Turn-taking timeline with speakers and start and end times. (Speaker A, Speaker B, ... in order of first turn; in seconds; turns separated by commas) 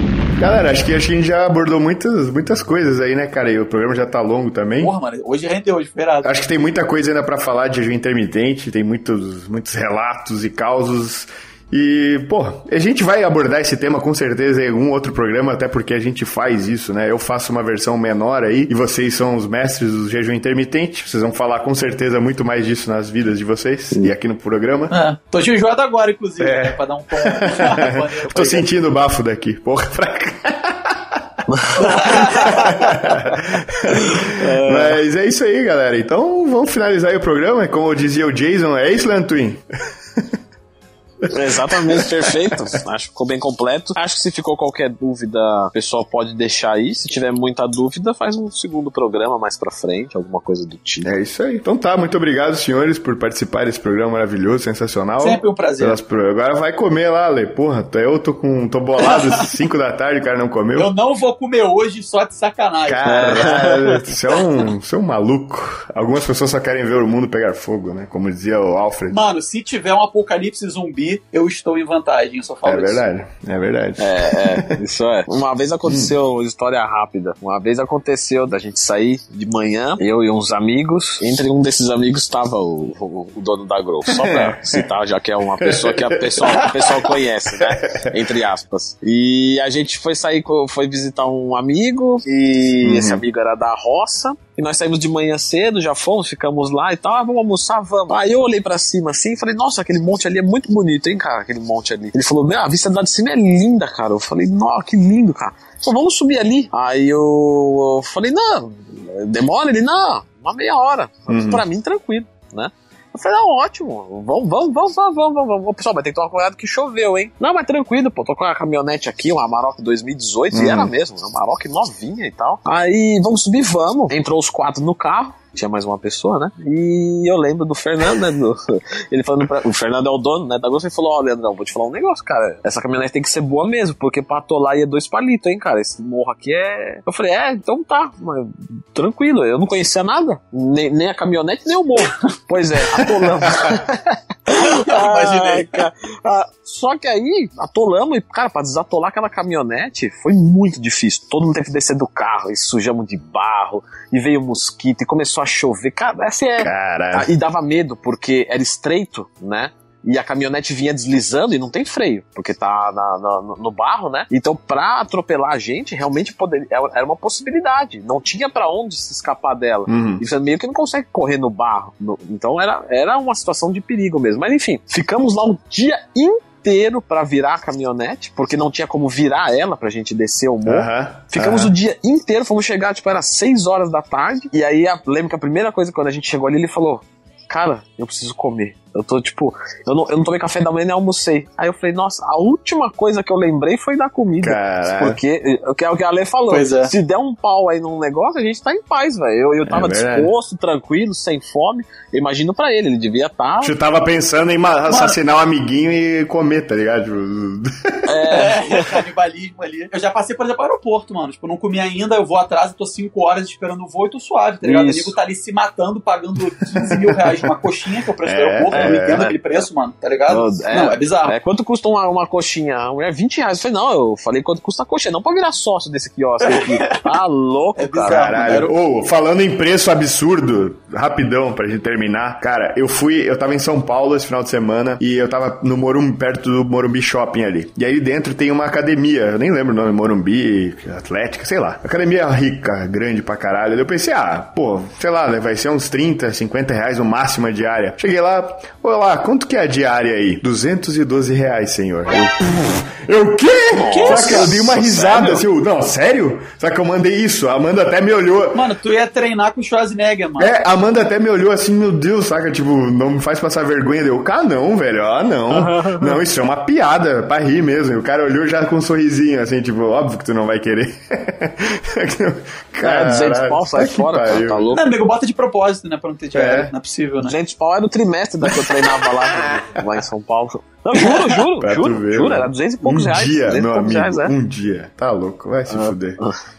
Speaker A: 0.4-4.9, Speaker B: 4.8-6.4, Speaker A: 6.2-24.9, Speaker B: 24.9-28.7, Speaker A: 26.4-31.2, Speaker C: 31.5-31.9, Speaker A: 31.8-39.6, Speaker B: 31.8-32.9, Speaker C: 33.9-35.0, Speaker A: 41.2-42.8, Speaker C: 41.3-51.1, Speaker A: 51.0-60.9, Speaker B: 55.2-56.0, Speaker B: 59.0-59.5, Speaker B: 60.8-64.4, Speaker A: 62.9-69.2, Speaker C: 63.1-63.8, Speaker B: 69.1-73.0, Speaker A: 72.6-74.8, Speaker C: 74.0-203.7, Speaker A: 75.8-76.1, Speaker A: 84.1-84.8, Speaker A: 85.6-87.0, Speaker A: 87.6-88.1, Speaker A: 92.8-93.2, Speaker A: 111.3-111.6, Speaker A: 120.5-120.9, Speaker A: 143.0-143.8, Speaker B: 144.5-145.9, Speaker A: 156.6-157.3, Speaker A: 169.9-170.2, Speaker A: 180.7-181.7, Speaker A: 194.4-195.2, Speaker B: 196.5-196.9, Speaker A: 199.7-200.3, Speaker A: 203.6-208.0, Speaker B: 204.9-205.2, Speaker C: 208.1-208.9, Speaker B: 208.3-221.3, Speaker C: 214.6-215.2, Speaker A: 218.2-219.2, Speaker C: 218.7-219.6, Speaker C: 220.3-228.4, Speaker B: 226.4-227.0, Speaker B: 227.8-228.7, Speaker A: 228.1-258.6, Speaker C: 253.7-255.4, Speaker B: 253.9-254.5, Speaker B: 258.5-260.5, Speaker A: 260.4-274.8, Speaker C: 265.5-266.2, Speaker C: 272.8-274.8, Speaker B: 274.8-277.4, Speaker A: 276.3-276.7, Speaker C: 277.2-284.3, Speaker A: 281.6-286.2, Speaker C: 285.7-286.4